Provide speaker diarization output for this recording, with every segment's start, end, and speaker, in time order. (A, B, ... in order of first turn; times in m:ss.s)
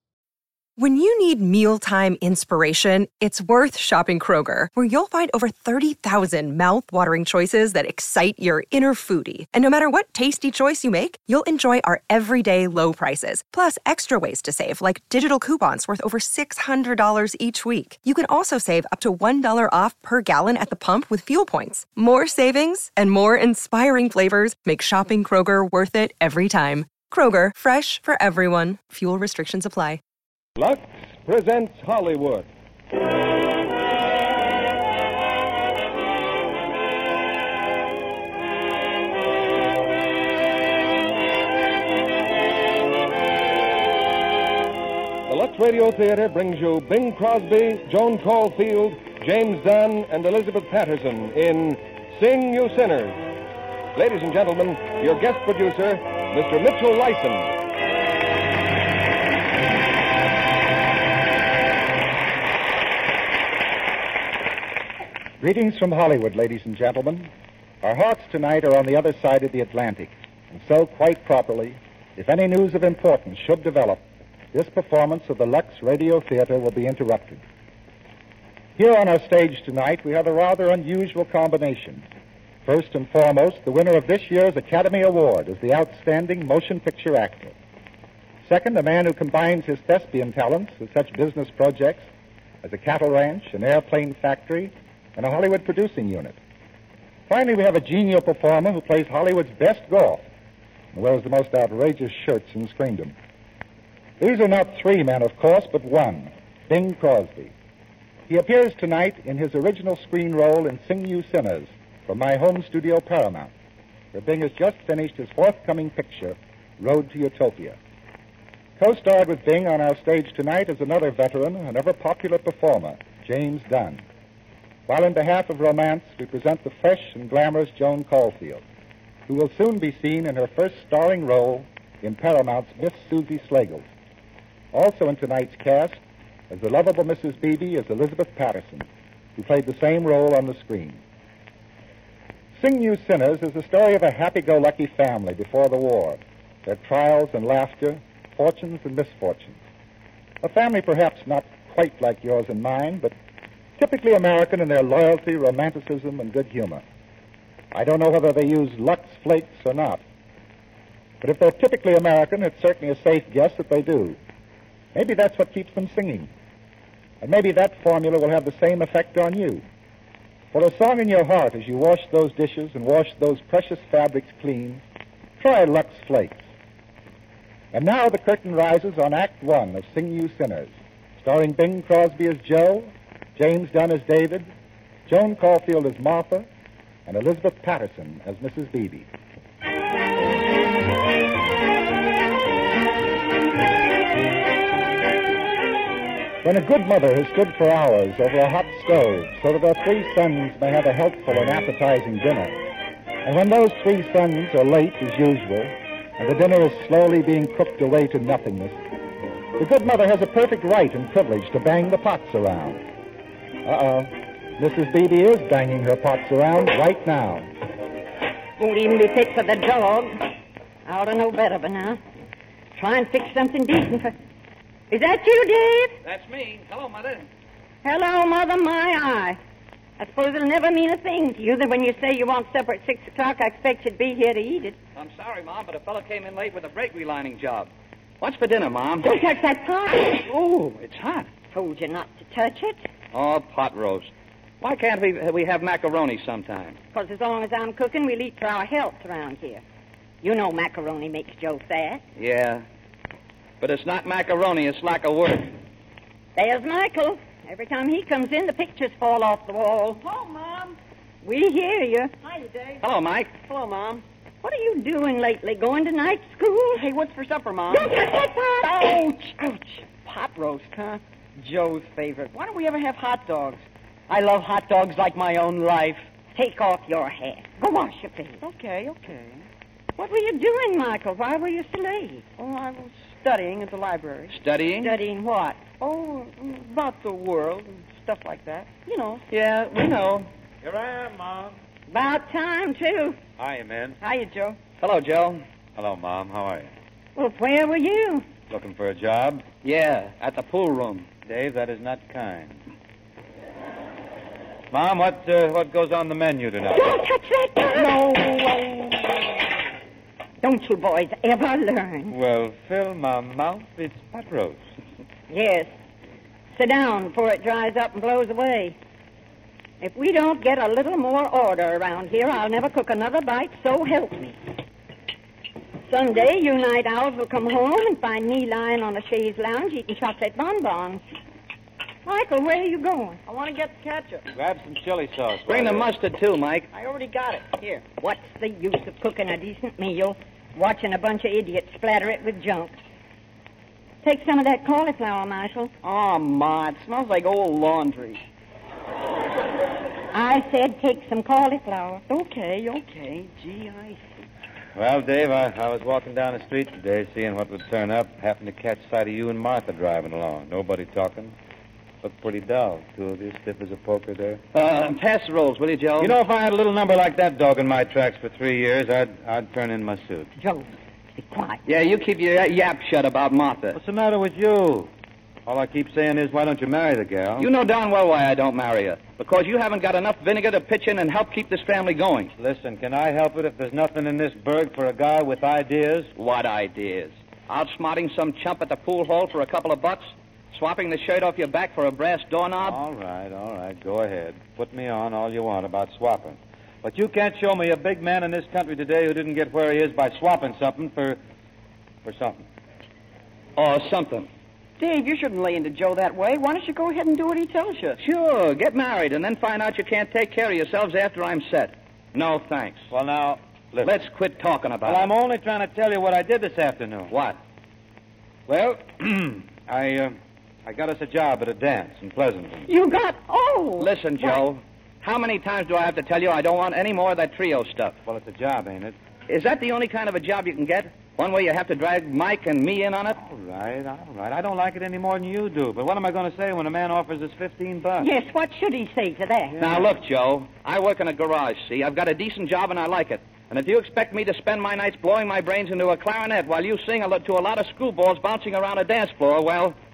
0:00.8-0:30.0 A
0:30.6-0:32.4 B
0:45.3-0:53.2 B
0:53.9-0:57.5 B
1:05.4-1:07.3 C
1:07.8-1:14.0 C
1:14.5-1:17.4 C
1:18.8-1:22.1 C
1:22.6-1:27.6 C
1:28.4-1:32.1 C
1:32.6-1:36.4 C
1:37.3-1:40.3 C
1:40.9-1:43.2 C
1:44.2-1:47.5 C
1:48.3-1:53.5 C
1:54.1-1:57.8 C
1:58.8-2:04.0 C
2:04.9-2:08.6 C
2:09.3-2:13.9 C
2:14.7-2:21.0 C
2:22.6-2:29.6 C
2:30.4-2:33.1 C
2:33.8-2:36.8 C
2:37.7-2:40.0 C
2:41.2-2:44.2 C
2:44.9-2:46.3 C
2:47.2-2:49.6 C
2:50.5-2:54.8 C
2:55.4-2:56.4 C
2:57.7-3:04.5 C
3:05.0-3:06.5 C
3:07.0-3:09.1 C
3:16.4-3:22.6 C
3:23.2-3:28.8 C
3:29.6-3:32.8 C
3:33.6-3:37.5 C
3:38.6-3:40.3 D
3:40.8-3:42.0 D
3:42.7-3:44.1 D
3:44.9-3:46.0 D
3:46.0-3:47.3 E
3:47.8-3:49.4 D
3:50.0-3:54.8 D
3:54.9-3:57.7 E
3:58.2-3:59.1 E
3:59.0-4:00.2 D
4:00.2-4:01.3 E
4:01.5-4:02.8 D
4:03.1-4:06.8 E
4:06.9-4:09.6 D
4:10.2-4:12.0 D
4:12.2-4:12.6 E
4:13.6-4:15.5 E
4:16.4-4:20.0 D
4:20.0-4:20.8 F
4:21.2-4:22.1 D
4:22.2-4:22.8 F
4:22.8-4:23.3 E
4:23.4-4:24.0 F
4:24.4-4:26.9 D
4:26.7-4:28.0 F
4:27.7-4:28.9 D
4:28.6-4:36.0 F
4:36.3-4:38.4 D
4:38.4-4:39.4 F
4:40.0-4:42.3 D
4:42.4-4:44.4 F
4:44.3-4:44.9 E
4:44.8-4:45.6 D
4:45.8-4:49.2 F
4:49.3-4:50.3 E
4:50.6-4:51.6 G
4:51.9-4:53.2 D
4:53.4-4:54.0 G
4:54.0-4:54.6 F
4:54.8-4:55.4 E
4:55.8-4:56.7 G
4:57.2-4:58.3 D
4:58.5-4:59.4 G
4:59.6-5:01.1 E
5:01.2-5:02.6 G
5:04.7-5:07.0 G
5:06.7-5:08.7 D
5:10.4-5:12.2 D
5:12.1-5:14.6 G
5:15.3-5:15.7 D
5:16.6-5:18.8 D
5:19.8-5:24.4 D
5:25.9-5:31.0 D
5:32.0-5:33.2 D
5:33.2-5:34.2 F
5:34.3-5:35.9 G
5:35.5-5:36.7 E
5:36.7-5:37.8 F
5:37.9-5:42.8 D
5:44.0-5:45.7 D
5:45.8-5:48.2 F
5:50.1-5:52.0 D
5:52.1-5:54.0 F
5:54.7-6:01.3 G
6:02.0-6:04.4 G
6:04.5-6:06.2 E
6:06.0-6:10.3 G
6:10.4-6:11.6 D
6:11.6-6:13.8 E
6:13.7-6:14.9 G
6:15.4-6:17.5 G
6:17.4-6:22.3 E
6:22.4-6:26.1 G
6:26.2-6:32.8 E
6:32.6-6:41.2 G
6:42.0-6:42.4 G
6:43.6-6:44.3 E
6:44.8-6:48.0 F
6:48.0-6:52.8 E
6:52.9-6:54.0 G
6:53.8-6:55.1 E
6:54.8-6:57.2 G
6:57.1-6:57.4 E
6:58.5-7:02.7 G
7:02.7-7:04.4 D
7:03.8-7:08.0 E
7:08.0-7:09.0 G
7:09.3-7:13.2 E
7:13.1-7:18.1 G
7:18.0-7:19.6 D
7:19.5-7:19.9 G
7:19.6-7:29.8 E